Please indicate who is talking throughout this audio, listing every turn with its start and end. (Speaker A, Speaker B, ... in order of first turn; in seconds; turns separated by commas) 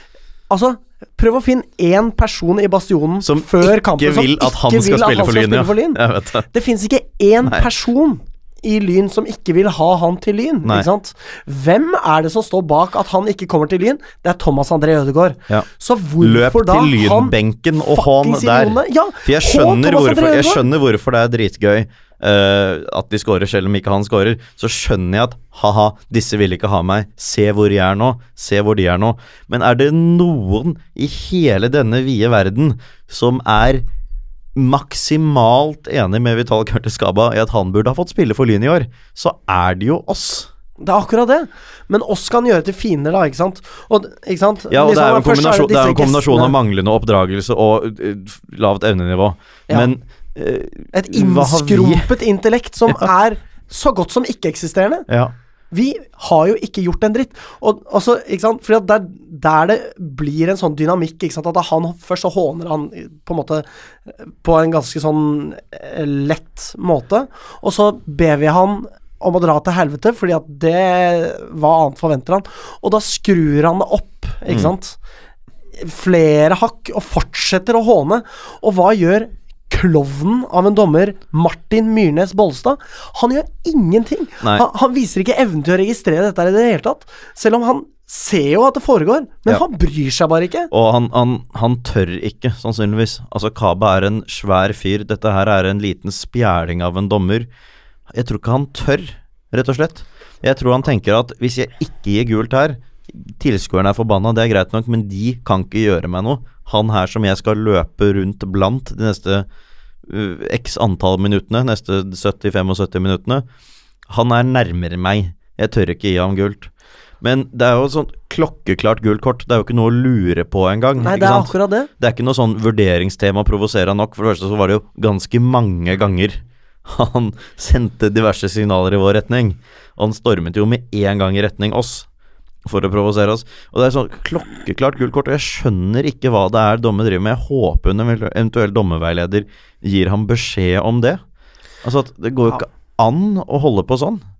Speaker A: 0.5-20.6, Speaker B: 3.2-6.5, Speaker B: 16.2-33.9, Speaker B: 34.5-40.5, Speaker A: 40.8-46.5, Speaker B: 44.7-52.1, Speaker A: 50.9-55.1, Speaker B: 55.1-55.3, Speaker A: 55.7-63.7, Speaker A: 64.2-75.0, Speaker A: 75.8-90.7, Speaker B: 90.7-97.5, Speaker B: 98.1-109.5, Speaker B: 110.1-113.5, Speaker B: 114.1-132.1, Speaker A: 121.0-121.9, Speaker B: 132.7-141.2, Speaker B: 141.8-144.2